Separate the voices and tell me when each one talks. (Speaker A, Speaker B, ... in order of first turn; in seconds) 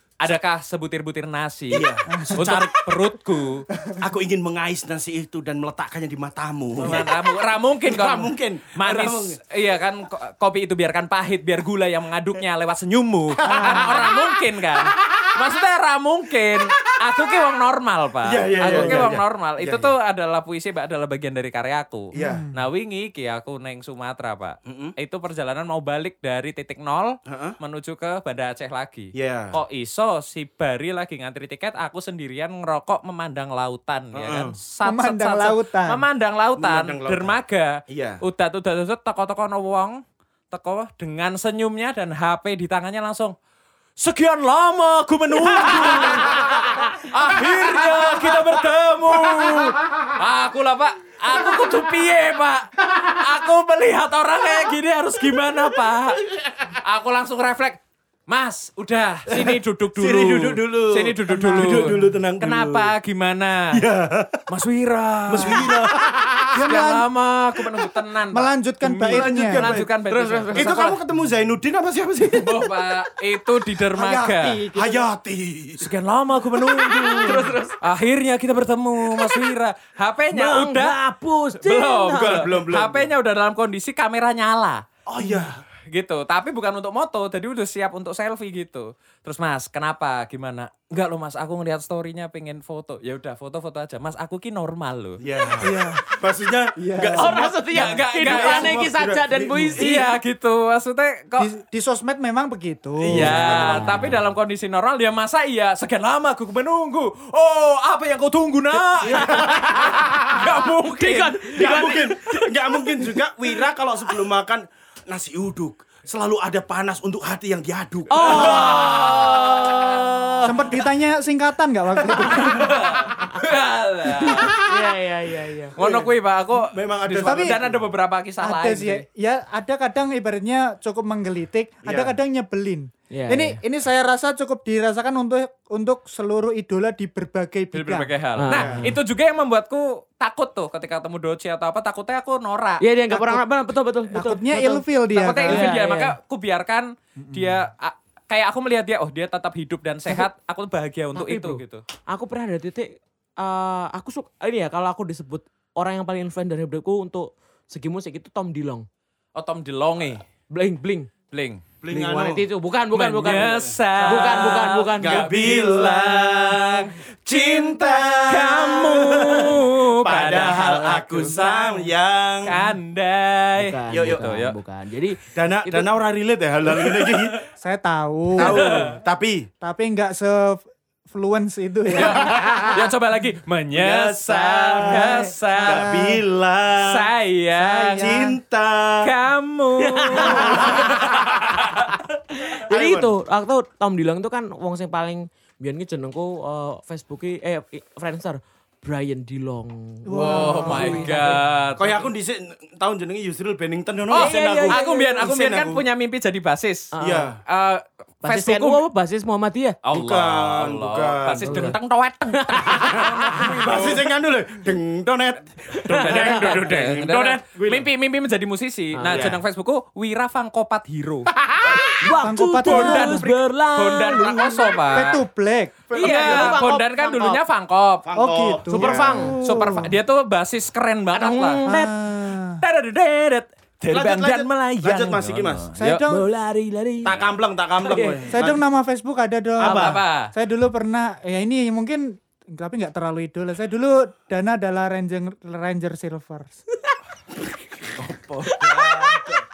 Speaker A: 0.2-3.6, 6.8-43.3, 44.0-63.8, 64.5-65.8, 66.6-71.0, 72.4-74.6, 75.8-81.0, 81.6-84.8, 85.9-95.2, 97.7-98.8, 99.7-101.5, 103.1-111.9, 118.2-120.8, 122.3-124.7, 125.8-129.0, 137.7-142.8, 145.1-151.8, 159.3-160.2, 161.3-161.6, 162.9-166.9, 168.2-171.3, 172.4-174.6, 178.4-179.0, 181.9-186.2, 186.8-188.2, 189.0-191.8, 200.2-202.0, 204.1-206.9, 207.4-208.8, 209.8-214.0, 215.9-221.3, 222.6-225.2, 226.0-228.0, 229.4-231.6, 232.6-236.1, 239.6-240.3, 248.0-249.4
Speaker B: 1.7-2.8, 4.0-7.2, 7.8-9.4, 13.4-14.2, 14.8-15.2, 18.2-19.9, 22.1-22.4, 24.6-24.9, 27.3-27.6, 29.1-29.6, 34.1-34.5, 36.6-37.4, 37.9-38.2, 59.3-62.9, 63.7-64.5, 65.3-66.6, 68.9-69.9, 70.5-72.9, 74.7-75.9, 82.1-83.1, 85.1-85.6, 95.2-99.9, 103.0-104.0, 109.0-110.3, 111.5-119.0, 122.1-122.8, 124.2-124.6, 125.8-127.8, 131.8-132.1, 138.5-138.9, 161.8-162.4, 163.3-172.5, 173.9-174.2, 175.3-177.4, 178.4-179.5, 182.0-182.8, 183.7-187.1, 188.0-189.1, 190.2-191.6, 192.7-193.1, 201.8-205.8, 207.0-207.4, 209.9-211.7, 212.8-217.9, 219.1-219.4, 225.9-226.6, 228.0-229.4, 233.9-235.7, 237.0-238.6, 239.6-240.0, 248.0-248.6
Speaker C: 2.1-2.5, 3.7-4.1, 13.4-14.1, 18.7-19.0, 22.1-22.6, 34.8-36.0, 61.3-62.2, 65.3-65.7, 66.5-67.1, 68.3-69.7, 73.9-75.1, 85.2-85.5, 95.6-96.0, 96.8-97.4, 101.4-104.0, 120.4-122.8, 127.2-127.6, 128.4-138.1, 143.1-143.4, 144.1-145.7, 147.2-147.6, 177.6-178.9, 179.6-182.5, 184.8-186.0, 187.6-188.4, 200.1-201.4, 222.1-223.3, 224.9-225.8, 228.2-229.9, 231.6-232.6, 235.8-236.2, 238.3-246.6
Speaker D: 70.0-70.9, 76.7-77.8, 80.3-82.5, 97.2-100.1, 109.1-113.2, 118.1-120.4, 124.6-125.7, 133.1-133.6, 138.4-139.0, 142.8-144.8, 145.4-146.1, 151.1-158.8, 160.5-161.1, 161.9-165.4, 170.2-171.8, 173.6-175.9, 189.8-190.9, 192.3-201.4, 204.1-205.2, 206.9-207.3, 208.2-209.8, 211.4-211.8, 212.3-213.9, 215.7-216.6, 218.9-219.3, 221.9-225.1, 225.9-227.4, 228.7-229.4, 231.1-231.9, 236.1-237.2, 237.8-238.2, 248.6-249.4